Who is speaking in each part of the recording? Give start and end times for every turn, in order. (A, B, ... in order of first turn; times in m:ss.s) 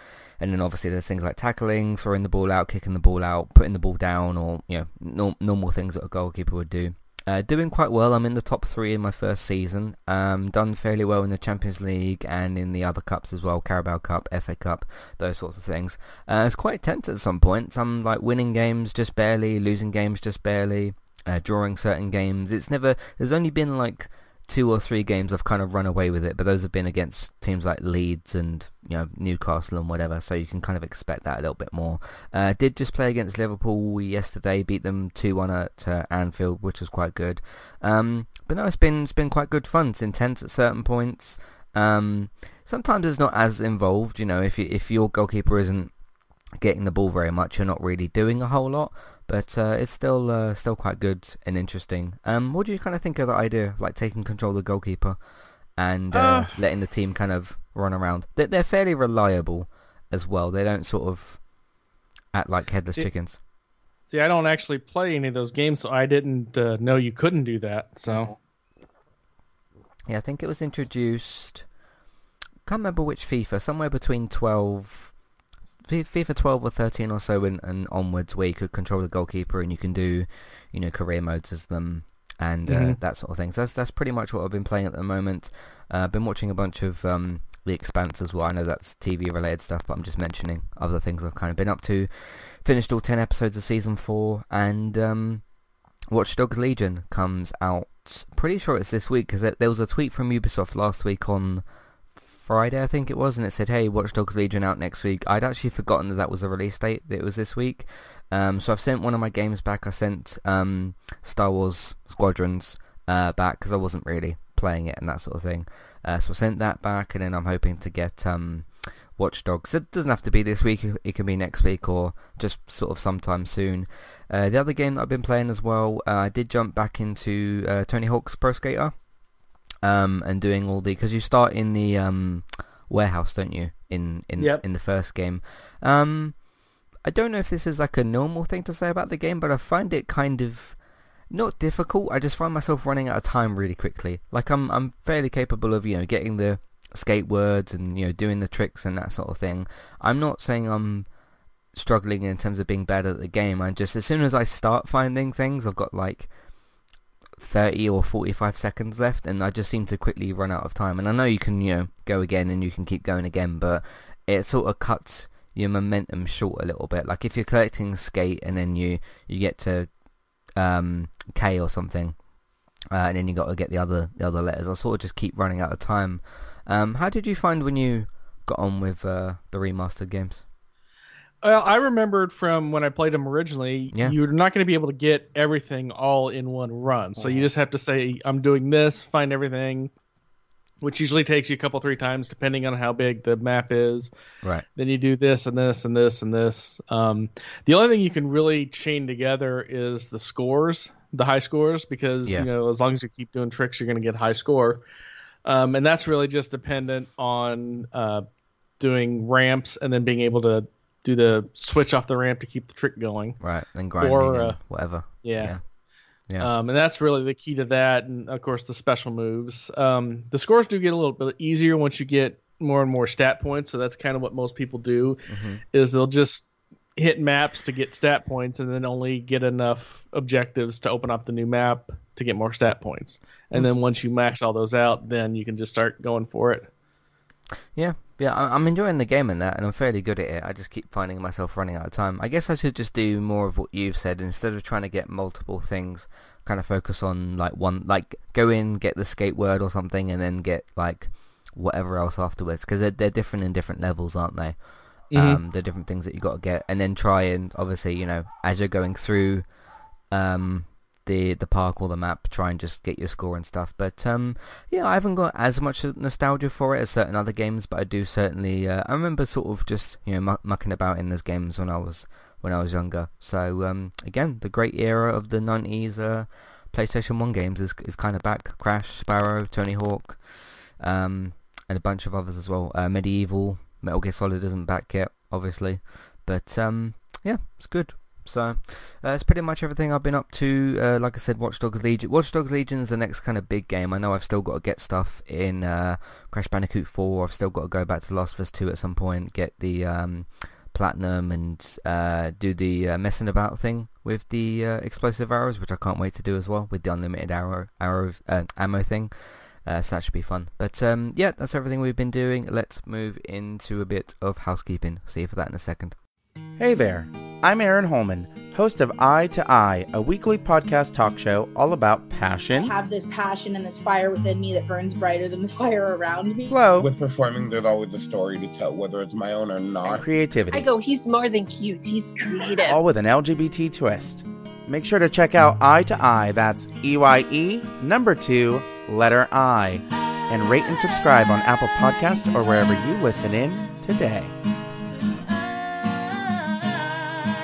0:00.4-0:45.9 A
0:46.6-0:55.2 A
0:55.8-1:01.4 A
0:56.1-0:56.5 B
1:02.3-1:03.4 A
1:04.1-1:08.3 B
1:08.1-1:08.3 A
1:10.1-1:11.6 A
1:12.6-1:15.1 A
1:15.9-1:35.4 A
1:22.6-1:23.0 B
1:36.1-1:41.6 A
1:42.2-2:08.9 A
2:09.8-2:16.4 A
2:14.4-2:14.6 B
2:17.0-2:20.8 A
2:21.3-2:31.1 A
2:31.7-2:36.3 A
2:37.4-2:49.9 A
2:50.6-2:52.2 A
2:52.9-3:00.4 A
3:01.4-3:09.9 B
3:07.2-3:07.5 A
3:10.8-3:14.1 B
3:14.8-3:24.8 B
3:25.4-3:28.2 B
3:28.8-3:33.4 B
3:33.4-3:35.6 A
3:34.0-3:34.6 B
3:35.2-3:35.5 B
3:36.4-3:45.2 B
3:45.3-3:45.6 A
3:45.7-3:56.7 B
3:57.7-4:14.6 A
4:15.1-4:15.4 B
4:15.1-4:19.4 A
4:20.1-4:40.2 A
4:40.8-5:15.9 A
5:16.6-5:22.7 C
5:22.5-5:26.6 D
5:26.5-5:26.9 C
5:26.7-5:30.0 E
5:29.8-5:30.7 C
5:30.5-5:32.8 F
5:32.6-5:44.3 C